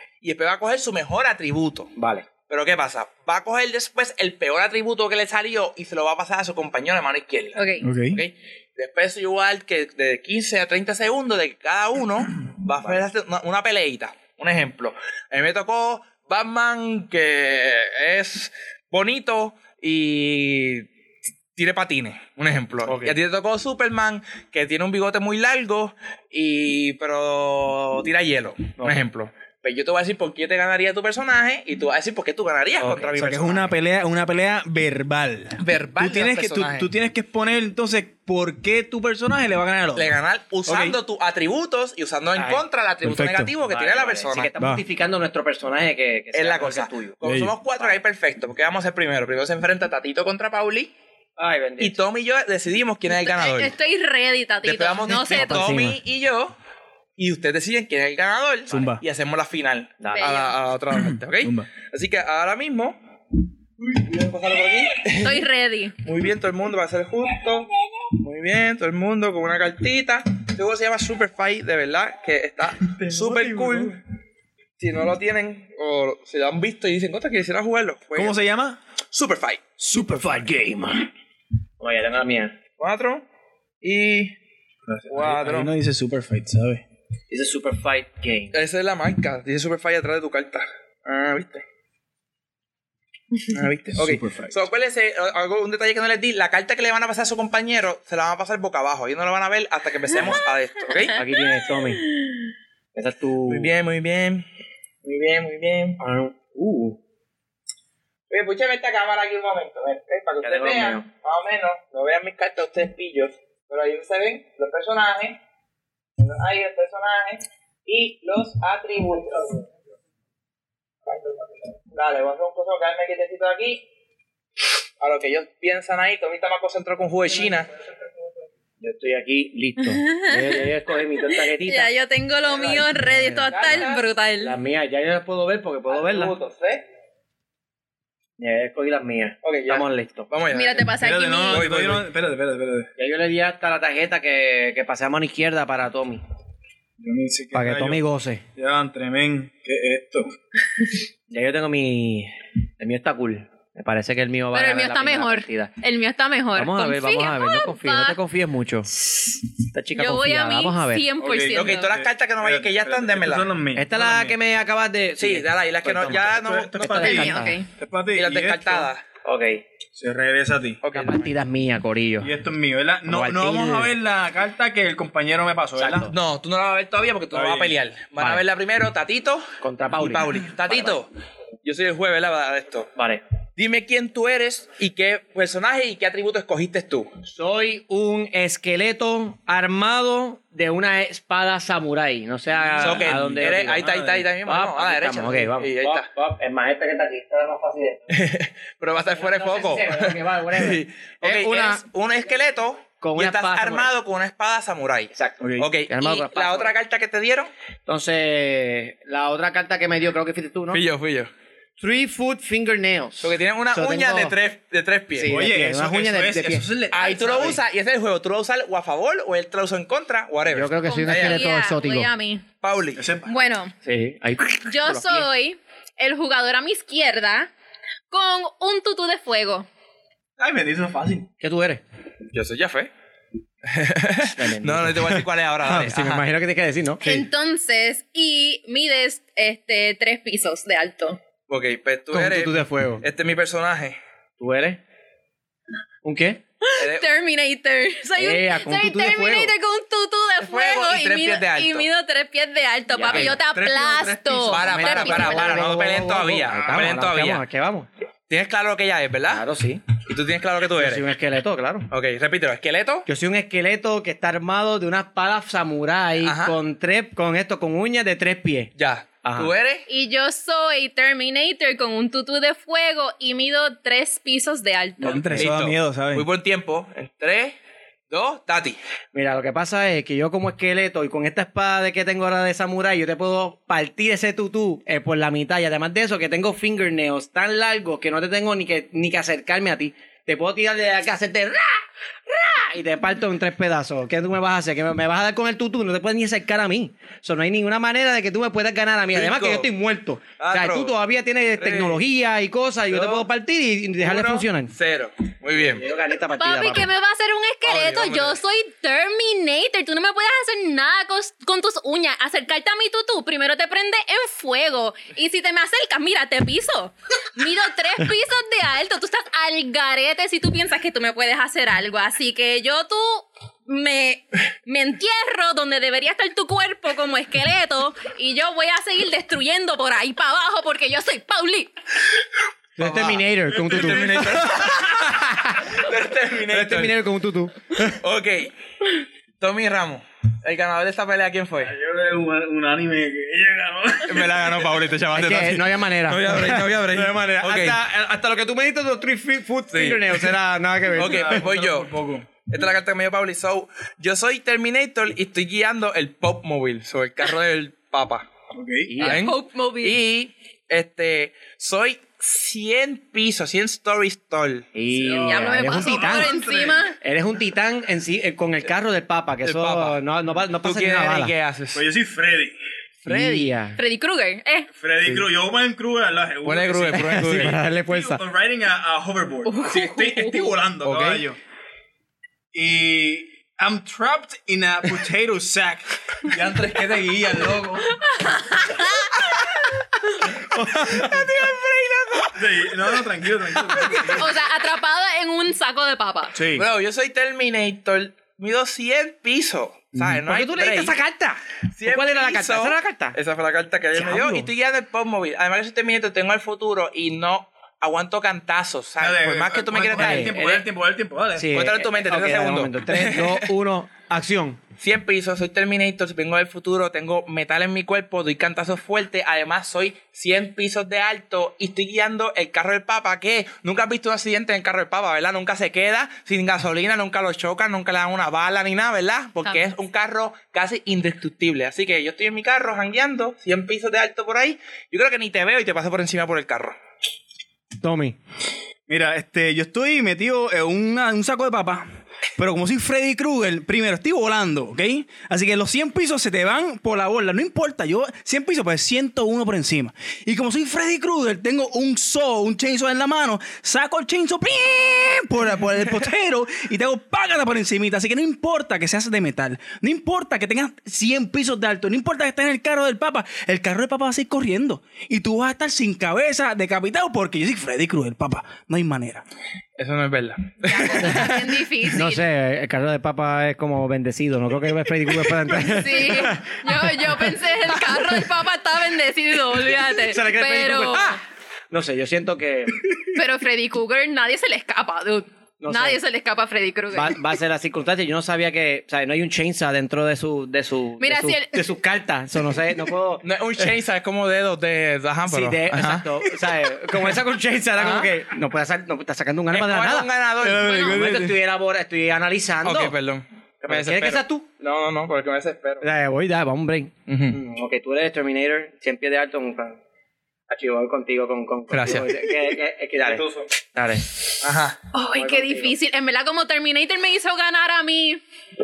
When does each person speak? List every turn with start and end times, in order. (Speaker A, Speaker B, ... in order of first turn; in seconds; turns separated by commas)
Speaker A: 0.2-1.9, Speaker B: 2.0-2.3, Speaker A: 2.4-20.9, Speaker C: 7.6-7.8, Speaker D: 7.8-8.2, Speaker B: 12.8-13.0, Speaker A: 21.6-33.7, Speaker B: 22.9-23.2, Speaker B: 32.8-33.4, Speaker D: 33.2-41.0, Speaker A: 35.6-36.9, Speaker A: 40.0-44.5, Speaker B: 42.4-42.6, Speaker D: 43.0-43.5, Speaker B: 43.6-47.2, Speaker A: 46.3-50.9, Speaker D: 47.2-47.5, Speaker B: 51.4-52.0, Speaker A: 51.8-53.8, Speaker C: 53.1-55.7, Speaker A: 54.6-56.6, Speaker B: 55.2-56.0, Speaker A: 57.2-63.0, Speaker D: 58.7-59.0, Speaker B: 60.0-60.4, Speaker C: 60.1-60.5, Speaker D: 60.9-61.7, Speaker A: 63.9-65.4, Speaker C: 65.1-66.0, Speaker A: 66.0-74.0, Speaker D: 73.0-74.0, Speaker A: 74.8-78.4, Speaker D: 78.1-78.8, Speaker A: 79.1-79.6, Speaker B: 79.8-81.1, Speaker D: 79.9-80.5, Speaker B: 81.8-82.6, Speaker A: 82.8-83.2, Speaker A: 83.8-84.3, Speaker D: 84.9-86.8, Speaker A: 85.1-85.7, Speaker B: 87.3-88.6, Speaker A: 88.5-91.6, Speaker A: 93.5-101.2, Speaker D: 93.9-94.6, Speaker B: 101.1-102.1, Speaker B: 103.0-103.7, Speaker A: 103.5-104.5, Speaker A: 105.0-106.0, Speaker B: 106.0-107.0, Speaker A: 108.3-115.4, Speaker B: 110.4-111.0, Speaker A: 116.2-119.6, Speaker A: 121.1-123.8, Speaker A: 125.0-127.7, Speaker B: 128.8-131.9, Speaker C: 129.8-130.7, Speaker C: 131.2-134.6, Speaker B: 132.5-133.8, Speaker A: 133.5-134.1, Speaker B: 134.4-136.4, Speaker A: 135.9-136.8, Speaker B: 138.4-140.3, Speaker A: 139.4-140.9, Speaker C: 140.5-141.7, Speaker D: 141.0-142.9, Speaker A: 141.5-142.1, Speaker B: 143.0-146.2, Speaker D: 147.0-148.0, Speaker B: 147.5-148.4, Speaker D: 148.6-150.3, Speaker B: 151.3-155.7, Speaker C: 154.5-158.2, Speaker B: 156.6-158.9, Speaker B: 159.7-161.1, Speaker C: 159.9-161.9, Speaker D: 161.2-164.4, Speaker A: 161.5-163.5, Speaker B: 163.8-166.4, Speaker A: 165.2-167.3, Speaker D: 166.0-168.9, Speaker C: 167.0-167.7, Speaker B: 167.0-167.6, Speaker A: 168.1-169.1, Speaker B: 169.2-169.6, Speaker D: 170.0-170.8, Speaker A: 170.8-171.3, Speaker B: 170.9-172.3, Speaker D: 172.2-176.1, Speaker B: 173.1-173.9, Speaker B: 175.8-176.1, Speaker A: 176.1-181.1, Speaker D: 177.3-177.8, Speaker B: 178.2-178.4, Speaker B: 179.6-181.0, Speaker A: 181.6-182.9, Speaker B: 183.0-183.2, Speaker A: 183.6-187.1, Speaker B: 187.3-198.1, Speaker D: 192.7-194.2, Speaker A: 192.8-196.1, Speaker A: 198.1-207.5, Speaker B: 199.2-201.8, Speaker B: 203.0-203.9, Speaker B: 205.1-206.7, Speaker D: 205.4-205.7, Speaker B: 207.9-210.8, Speaker A: 210.7-211.3, Speaker B: 211.8-214.4, Speaker A: 213.2-215.4, Speaker B: 215.1-216.7, Speaker D: 215.3-217.6, Speaker A: 216.9-221.5, Speaker B: 217.2-217.6, Speaker B: 220.5-222.1, Speaker C: 220.8-222.4, Speaker A: 222.6-223.0, Speaker D: 223.0-223.3, Speaker C: 223.3-223.7, Speaker B: 223.9-225.2, Speaker C: 224.6-227.5, Speaker C: 228.1-229.7, Speaker D: 230.4-231.3, Speaker B: 231.4-231.8, Speaker A: 232.3-232.9, Speaker A: 233.7-236.3, Speaker B: 234.4-237.3, Speaker C: 237.0-241.2, Speaker A: 241.5-244.0, Speaker B: 242.1-243.1, Speaker B: 244.4-244.8, Speaker B: 246.0-246.4, Speaker C: 246.6-255.5, Speaker A: 246.8-247.1, Speaker B: 248.2-249.5, Speaker A: 250.4-251.9, Speaker B: 252.9-253.4, Speaker A: 253.1-257.4, Speaker B: 254.3-257.9, Speaker A: 258.3-259.4, Speaker B: 259.3-259.8, Speaker A: 260.0-261.1, Speaker B: 260.8-261.9, Speaker A: 261.9-263.1, Speaker B: 263.1-268.7, Speaker A: 266.2-266.6, Speaker A: 268.8-269.9, Speaker B: 269.2-269.5, Speaker C: 269.9-275.2, Speaker D: 275.0-276.3, Speaker A: 275.4-277.6, Speaker A: 278.1-278.8, Speaker B: 279.1-304.7, Speaker A: 299.1-299.7, Speaker A: 300.4-300.9, Speaker A: 301.6-302.0, Speaker A: 302.9-303.3, Speaker A: 304.0-305.8, Speaker B: 305.6-306.9, Speaker C: 306.4-331.7, Speaker A: 307.6-308.4, Speaker B: 332.8-334.3, Speaker A: 332.8-335.0, Speaker D: 333.5-334.8, Speaker B: 335.0-335.7, Speaker A: 335.7-336.9, Speaker B: 336.5-337.9, Speaker A: 337.8-341.7, Speaker D: 341.6-344.7, Speaker A: 344.1-347.8, Speaker B: 345.1-351.4, Speaker A: 349.7-350.2, Speaker A: 350.9-351.9, Speaker D: 350.9-352.3, Speaker A: 352.4-358.3, Speaker D: 358.5-358.9, Speaker B: 358.9-359.3, Speaker C: 359.0-360.0, Speaker A: 359.0-365.2, Speaker B: 364.7-366.3, Speaker D: 365.0-366.8, Speaker C: 365.1-367.0, Speaker B: 367.0-371.3, Speaker A: 369.4-370.0, Speaker A: 370.6-371.9, Speaker D: 371.7-372.6, Speaker B: 373.1-373.8, Speaker A: 373.1-373.3, Speaker C: 373.8-374.7, Speaker D: 374.7-381.4, Speaker A: 376.4-377.6, Speaker B: 376.9-378.2, Speaker C: 379.4-380.5, Speaker B: 380.8-381.2, Speaker D: 382.5-387.9, Speaker C: 388.0-389.2, Speaker B: 390.5-391.5, Speaker A: 390.9-392.7, Speaker D: 392.4-394.3, Speaker C: 394.1-396.4, Speaker D: 396.4-396.7, Speaker A: 396.5-401.0, Speaker D: 399.9-400.2, Speaker B: 400.3-403.2, Speaker A: 401.8-410.6, Speaker B: 403.9-404.5, Speaker D: 409.0-411.5, Speaker B: 409.9-410.3, Speaker B: 411.4-414.6, Speaker A: 411.5-413.5, Speaker A: 414.8-436.8, Speaker B: 437.8-438.2, Speaker D: 438.9-469.2, Speaker A: 469.8-471.4, Speaker C: 470.7-472.2, Speaker B: 471.9-478.2, Speaker C: 475.6-481.2, Speaker B: 480.0-481.2, Speaker B: 481.7-482.9, Speaker C: 483.1-487.2, Speaker B: 485.6-486.0, Speaker B: 486.9-493.7, Speaker C: 491.0-491.6, Speaker A: 493.2-496.1, Speaker B: 495.3-500.1, Speaker A: 497.7-498.1, Speaker A: 499.5-500.7, Speaker D: 500.4-501.4, Speaker C: 500.6-500.9, Speaker B: 500.6-502.9, Speaker A: 502.6-505.9, Speaker B: 503.6-504.4, Speaker B: 505.8-509.8, Speaker A: 507.1-507.4, Speaker B: 510.5-514.1, Speaker A: 511.7-512.1, Speaker A: 513.0-513.6, Speaker A: 514.4-514.8, Speaker C: 514.9-518.2, Speaker B: 515.1-515.8